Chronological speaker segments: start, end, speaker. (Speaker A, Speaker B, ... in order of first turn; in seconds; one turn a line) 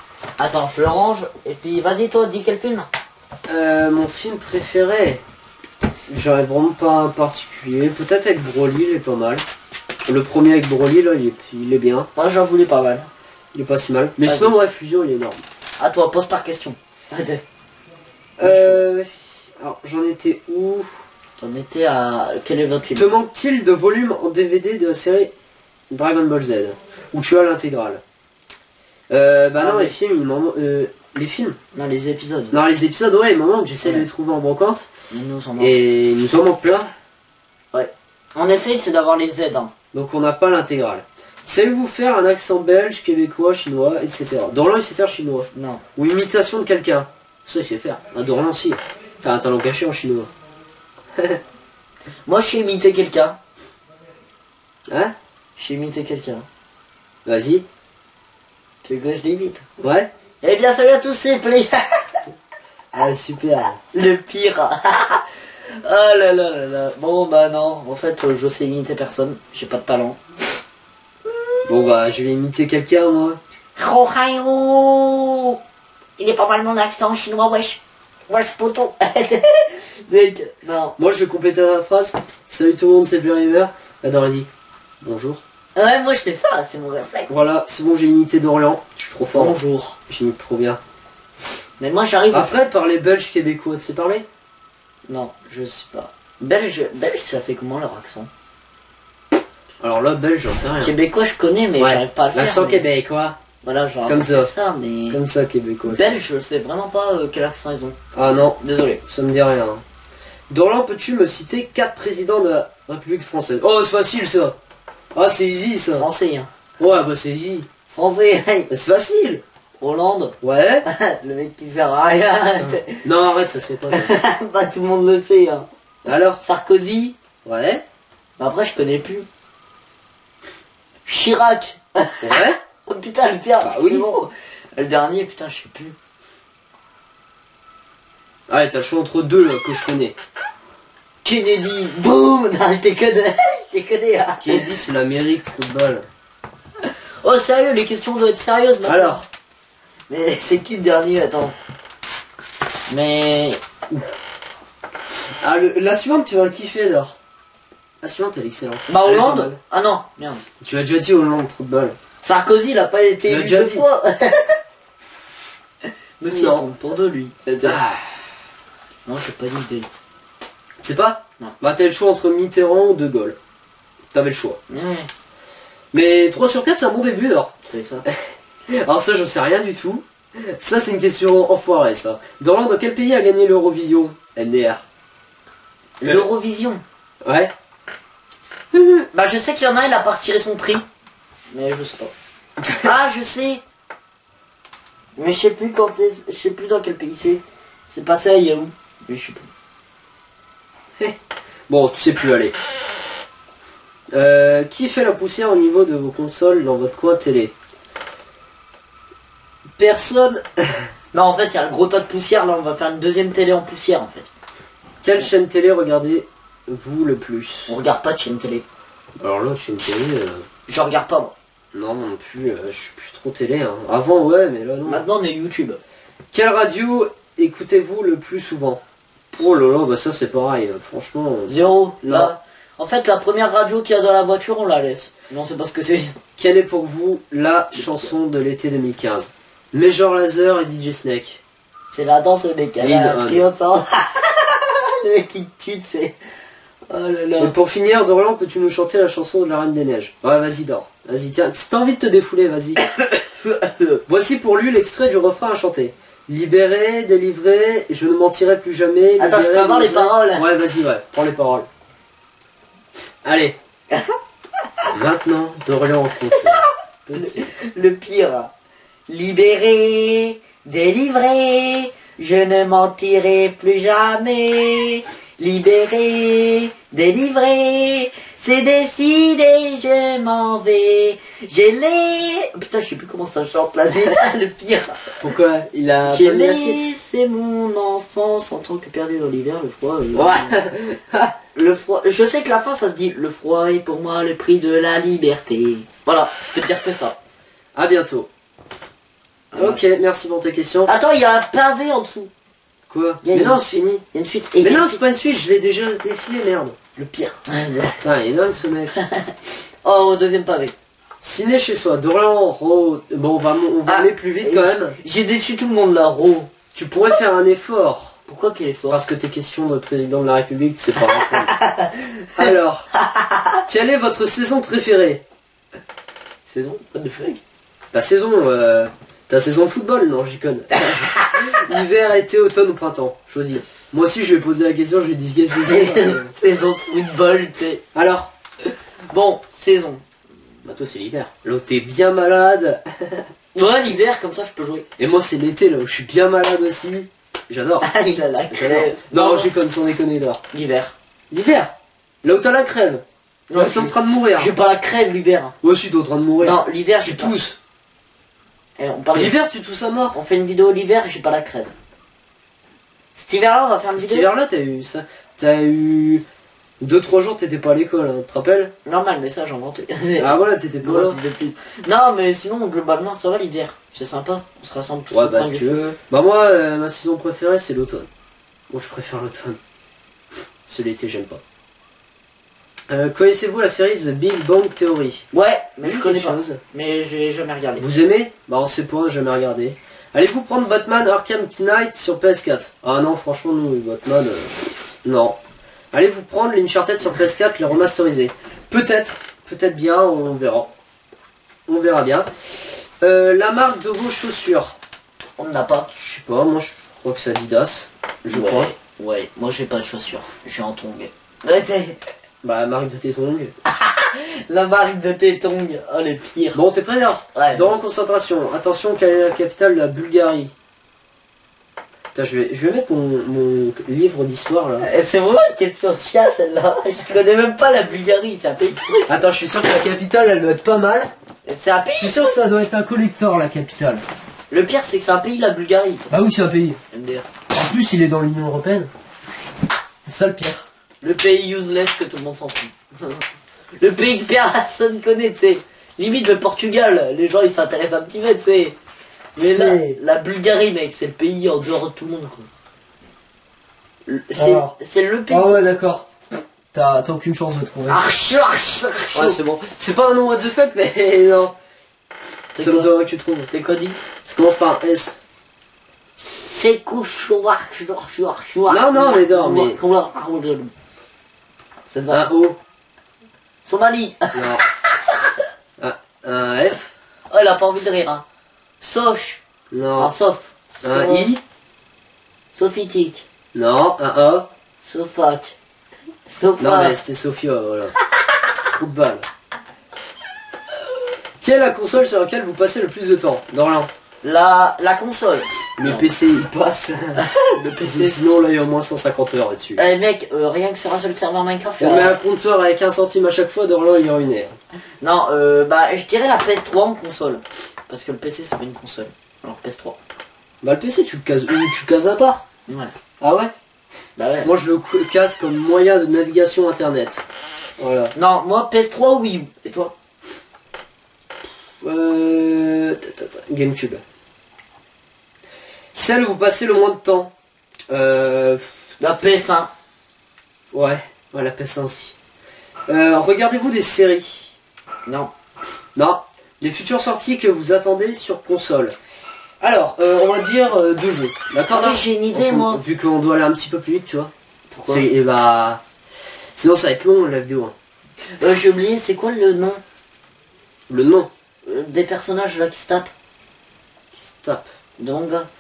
Speaker A: 0.4-2.9
Speaker B: 3.5-5.2
Speaker B: 6.1-9.4
Speaker B: 10.1-12.1
Speaker A: 12.1-13.1
Speaker B: 13.5-15.4
Speaker A: 14.2-14.6
Speaker A: 15.8-17.4
Speaker B: 18.4-20.9
Speaker A: 18.4-18.8
Speaker A: 21.4-23.1
Speaker B: 22.9-25.3
Speaker B: 25.9-28.0
Speaker B: 29.1-31.6
Speaker A: 29.6-29.9
Speaker A: 31.7-32.6
Speaker B: 32.5-34.9
Speaker A: 35.1-35.8
Speaker B: 35.6-36.9
Speaker A: 37.7-39.7
Speaker B: 39.9-50.3
Speaker A: 45.5-45.8
Speaker A: 52.2-53.4
Speaker A: 55.6-56.5
Speaker B: 57.2-57.6
Speaker A: 58.8-59.6
Speaker B: 59.8-60.1
Speaker A: 60.4-62.2
Speaker B: 62.9-63.8
Speaker A: 63.9-70.2
Speaker B: 71.7-73.4
Speaker A: 73.8-75.6
Speaker A: 76.2-81.0
Speaker B: 81.0-84.5
Speaker B: 85.0-85.4
Speaker A: 85.7-87.4
Speaker B: 87.3-90.8
Speaker A: 89.3-90.0
Speaker A: 91.8-92.6
Speaker B: 92.3-94.2
Speaker A: 95.1-98.3
Speaker B: 99.8-100.9
Speaker A: 100.8-102.8
Speaker B: 101.8-103.4
Speaker A: 103.6-105.2
Speaker B: 104.0-104.5
Speaker B: 105.1-106.1
Speaker A: 105.9-108.0
Speaker B: 108.1-109.8
Speaker A: 108.6-109.0
Speaker B: 110.5-114.6
Speaker B: 115.1-116.1
Speaker A: 115.9-116.5
Speaker B: 116.8-117.7
Speaker A: 117.9-118.7
Speaker B: 118.7-119.4
Speaker A: 119.8-123.0
Speaker B: 120.4-120.8
Speaker B: 122.6-124.1
Speaker A: 123.9-125.7
Speaker B: 126.0-126.4
Speaker A: 126.4-127.2
Speaker B: 127.4-127.8
Speaker A: 128.4-129.2
Speaker A: 131.1-135.9
Speaker B: 132.2-132.6
Speaker B: 133.6-134.1
Speaker B: 138.5-140.2
Speaker A: 141.2-144.7
Speaker B: 144.4-146.0
Speaker A: 147.2-149.2
Speaker B: 148.8-149.2
Speaker A: 150.1-151.5
Speaker A: 152.9-153.6
Speaker B: 155.4-157.2
Speaker B: 158.0-159.6
Speaker A: 158.9-160.4
Speaker B: 160.6-162.0
Speaker A: 162.2-164.6
Speaker B: 163.3-163.8
Speaker A: 166.2-167.8
Speaker B: 166.3-166.7
Speaker B: 167.6-168.2
Speaker A: 169.1-169.9
Speaker B: 170.8-173.4
Speaker B: 174.1-174.6
Speaker A: 174.7-175.1
Speaker B: 175.9-177.5
Speaker A: 177.7-178.1
Speaker B: 178.7-184.8
Speaker A: 186.0-186.8
Speaker B: 187.2-187.5
Speaker B: 188.7-189.0
Speaker A: 189.1-190.8
Speaker A: 191.5-192.1
Speaker A: 192.8-193.6
Speaker A: 195.2-199.5
Speaker B: 201.7-202.5
Speaker B: 204.1-207.5
Speaker B: 209.8-210.5
Speaker A: 211.1-214.3
Speaker B: 215.0-217.8
Speaker A: 217.7-218.6
Speaker B: 219.2-220.4
Speaker A: 220.7-221.3
Speaker B: 221.7-225.0
Speaker A: 224.9-225.8
Speaker B: 226.3-228.8
Speaker B: 229.3-232.3
Speaker A: 231.5-236.2
Speaker B: 236.4-241.4
Speaker A: 237.8-238.1
Speaker A: 241.9-246.2
Speaker B: 242.8-243.4
Speaker A: 246.9-247.5
Speaker B: 247.4-252.8
Speaker A: 252.8-254.0
Speaker B: 254.1-261.7
Speaker A: 259.2-260.5
Speaker B: 263.2-263.6
Speaker B: 264.9-267.4
Speaker A: 267.1-268.5
Speaker A: 269.1-285.1
Speaker B: 285.2-286.8
Speaker A: 286.1-290.7
Speaker B: 290.1-291.3
Speaker A: 291.5-297.2
Speaker B: 297.7-298.3
Speaker A: 299.5-299.8
Speaker B: 299.5-300.9
Speaker A: 300.9-302.3
Speaker B: 302.9-304.0
Speaker A: 303.2-305.0
Speaker B: 304.6-306.8
Speaker A: 306.9-308.0
Speaker B: 308.0-309.0
Speaker A: 309.8-310.8
Speaker B: 311.2-315.0
Speaker A: 313.9-316.5
Speaker B: 316.7-318.1
Speaker A: 318.3-319.0
Speaker B: 318.9-321.5
Speaker A: 321.1-322.5
Speaker B: 322.4-322.9
Speaker A: 323.1-323.4
Speaker B: 323.7-325.2
Speaker A: 326.5-327.4
Speaker B: 327.9-336.3
Speaker A: 330.9-331.3
Speaker A: 335.6-337.8
Speaker B: 337.9-338.3
Speaker A: 339.1-340.0
Speaker B: 340.6-343.2
Speaker A: 343.5-344.9
Speaker B: 345.0-347.9
Speaker A: 347.8-349.5
Speaker B: 348.5-350.4
Speaker A: 350.5-350.9
Speaker B: 351.3-351.7
Speaker B: 352.2-353.0
Speaker A: 353.5-355.5
Speaker B: 353.5-354.5
Speaker B: 355.6-357.6
Speaker A: 356.4-357.4
Speaker A: 358.8-359.4
Speaker B: 359.1-360.2
Speaker A: 360.1-361.7
Speaker A: 363.1-364.3
Speaker B: 363.9-366.2
Speaker B: 366.8-368.7
Speaker A: 368.8-376.0
Speaker B: 370.2-371.2
Speaker B: 375.1-378.1
Speaker B: 378.7-379.6
Speaker B: 380.7-381.4
Speaker B: 382.9-385.2
Speaker A: 385.3-387.9
Speaker B: 385.8-386.6
Speaker B: 387.8-395.4
Speaker B: 395.9-400.7
Speaker B: 401.7-404.8
Speaker A: 405.4-405.9
Speaker B: 405.9-408.7
Speaker A: 408.3-412.0
Speaker B: 412.4-413.5
Speaker A: 413.7-416.6
Speaker B: 416.5-420.5
Speaker A: 417.3-417.8
Speaker B: 422.1-424.9
Speaker A: 424.8-429.3
Speaker B: 429.1-431.1
Speaker A: 431.4-432.3
Speaker B: 431.9-434.0
Speaker A: 434.5-436.1
Speaker B: 436.1-436.8
Speaker A: 436.9-437.3
Speaker B: 437.5-438.9
Speaker B: 440.1-440.6
Speaker A: 441.0-448.8
Speaker B: 449.4-450.0
Speaker A: 449.4-452.5
Speaker A: 454.1-455.6
Speaker B: 454.4-454.7
Speaker B: 455.3-456.1
Speaker B: 456.7-458.1
Speaker A: 457.9-459.4
Speaker B: 459.1-461.5
Speaker A: 462.6-462.9
Speaker B: 462.6-463.5
Speaker A: 463.5-464.0
Speaker B: 464.2-465.2
Speaker A: 466.2-470.7
Speaker B: 468.7-469.8
Speaker A: 471.9-472.3
Speaker B: 472.1-472.6
Speaker A: 473.6-475.3
Speaker B: 474.3-474.6
Speaker B: 475.8-476.9
Speaker A: 477.3-478.2
Speaker A: 478.8-479.4
Speaker B: 479.7-480.1
Speaker A: 480.0-481.3
Speaker B: 480.8-481.4
Speaker A: 482.5-483.2
Speaker B: 483.5-484.5
Speaker A: 484.8-485.5
Speaker A: 486.3-487.0
Speaker B: 486.6-487.9
Speaker B: 488.6-489.2
Speaker B: 491.4-493.9
Speaker A: 494.2-496.1
Speaker B: 495.8-497.2
Speaker A: 497.2-498.2
Speaker B: 497.8-499.8
Speaker A: 499.8-502.1
Speaker B: 501.8-504.6
Speaker A: 505.0-510.0
Speaker B: 510.6-512.4
Speaker A: 512.7-512.9
Speaker B: 513.2-513.5
Speaker A: 514.1-514.5
Speaker B: 514.4-517.2
Speaker B: 517.8-518.1
Speaker A: 518.1-519.9
Speaker B: 521.8-524.0
Speaker B: 525.9-527.3
Speaker B: 527.9-528.9
Speaker A: 529.0-529.7
Speaker B: 530.7-532.1
Speaker B: 532.9-534.6
Speaker A: 535.0-535.3
Speaker B: 535.9-539.0
Speaker B: 539.6-544.3
Speaker A: 541.7-542.8
Speaker A: 544.7-545.1
Speaker B: 544.9-545.8
Speaker B: 546.5-547.7
Speaker A: 548.4-549.8
Speaker B: 550.9-551.3
Speaker A: 551.6-553.1
Speaker B: 554.1-554.7
Speaker A: 555.0-555.5